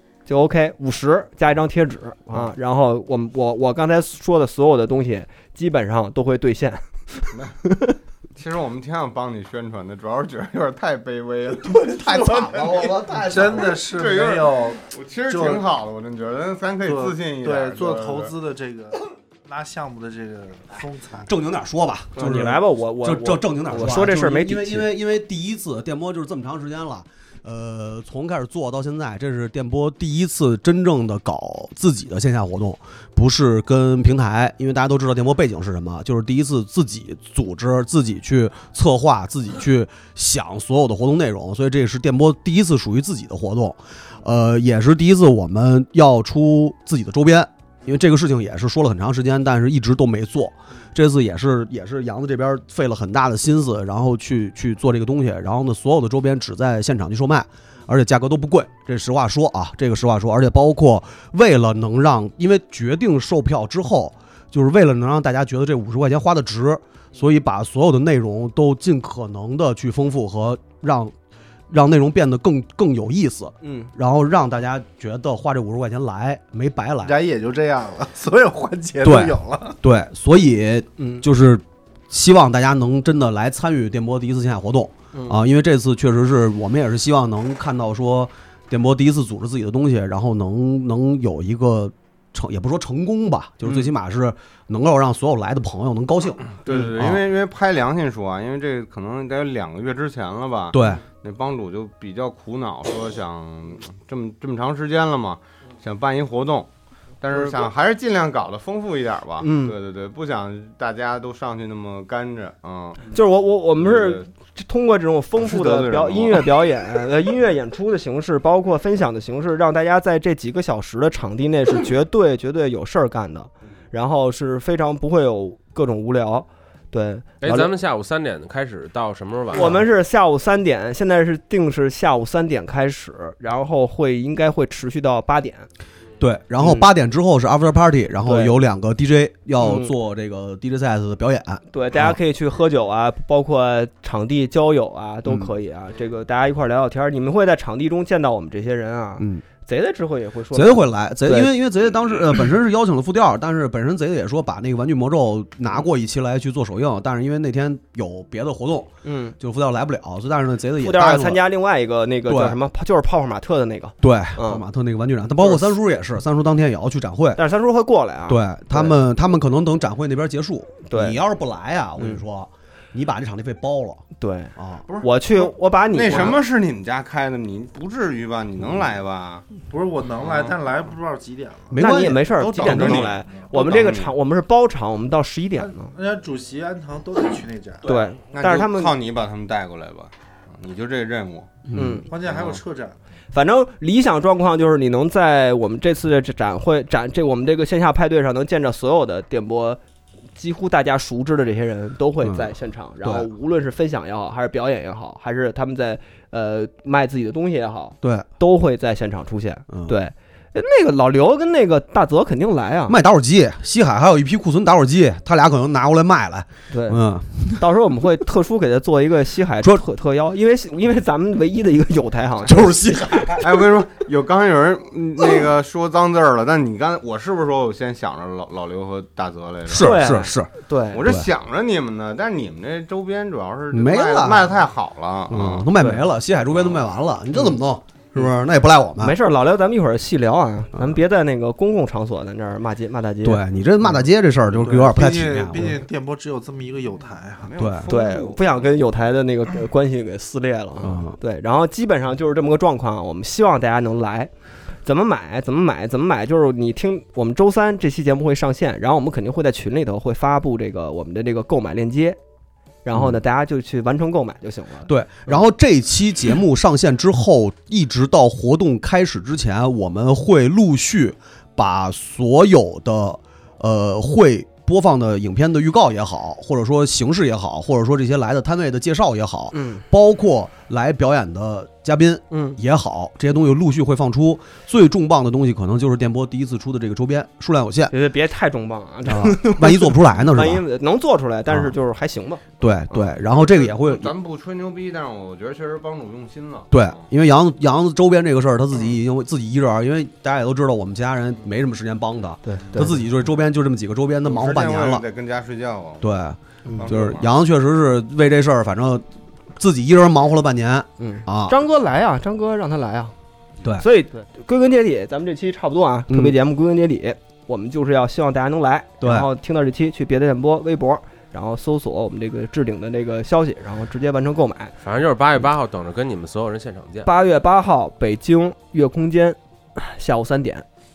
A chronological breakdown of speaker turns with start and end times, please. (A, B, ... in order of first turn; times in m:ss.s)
0:00.3-0:08.0 A
0:08.4-0:18.3 B
0:11.7-0:13.8 C
0:13.2-0:15.7 D
0:16.8-0:21.3 D
0:21.2-1:11.2 C
0:22.2-0:24.9 A
1:11.7-1:17.2 C
1:13.6-1:13.9 A
1:17.0-1:19.8 D
1:19.0-1:37.2 C
1:21.0-1:21.3 A
1:25.1-1:25.4 A
1:36.6-1:46.7 B
1:40.7-1:41.0 C
1:47.2-1:53.1 B
1:49.4-1:49.8 A
1:53.1-2:07.6 A
1:53.8-1:54.2 B
1:55.4-1:56.5 B
2:07.4-2:09.8 E
2:09.5-2:15.7 A
2:16.2-2:22.2 C
2:16.6-2:16.9 A
2:18.2-2:18.6 A
2:19.6-2:19.9 A
2:21.7-2:31.6 A
2:25.3-2:25.5 C
2:29.2-2:29.4 C
2:30.5-2:41.4 C
2:39.0-2:39.4 A
2:40.8-2:44.6 A
2:42.2-2:42.6 C
2:44.0-2:47.4 C
2:47.4-2:49.0 A
2:48.3-2:54.0 C
2:50.9-2:51.2 A
2:52.0-2:52.2 A
2:54.2-2:56.4 A
2:54.6-2:54.9 C
2:54.9-2:59.5 B
2:59.7-3:01.9 D
3:00.2-3:00.6 B
3:01.7-3:03.2 C
3:01.8-3:05.9 A
3:02.6-3:04.2 B
3:02.6-3:03.5 D
3:05.6-3:07.9 D
3:07.8-3:09.0 A
3:07.9-3:11.6 B
3:11.7-3:12.0 C
3:11.7-3:12.1 A
3:12.1-3:13.0 D
3:12.2-3:12.6 B
3:13.3-3:19.8 A
3:20.4-3:33.0 A
3:22.2-3:23.3 C
3:28.0-3:28.3 C
3:32.9-3:37.7 C
3:36.7-3:43.4 A
3:39.6-3:39.8 C
3:42.4-3:43.6 C
3:43.4-3:50.0 B
3:49.7-3:50.5 C
3:49.8-3:51.0 A
3:50.9-3:55.7 B
3:51.0-3:51.3 C
3:53.7-3:54.6 C
3:55.3-3:59.2 C
3:55.8-3:56.1 A
3:56.5-3:56.9 B
3:59.0-4:03.4 A
4:03.2-4:05.8 C
4:04.6-4:07.5 D
4:07.4-4:08.6 B
4:07.6-4:07.9 C
4:07.9-4:14.3 A
4:10.8-4:11.2 C
4:14.8-4:22.2 A
4:22.8-4:25.4 A
4:24.9-4:47.9 C
4:39.5-4:39.8 A
4:42.3-4:42.6 A
4:47.9-4:53.1 A
4:49.0-4:50.6 C
4:51.5-4:51.7 C
4:52.6-4:54.2 C
4:53.3-4:57.0 B
4:56.7-5:05.0 C
5:02.4-5:03.0 A
5:04.2-5:06.1 B
5:06.0-5:09.0 C
5:06.6-5:06.9 A
5:06.8-5:07.3 B
5:09.6-5:11.6 C
5:11.0-5:13.2 A
5:13.8-5:24.7 A
5:16.1-5:16.4 C
5:19.0-5:19.3 C
5:24.8-5:27.1 E
5:27.0-5:30.7 A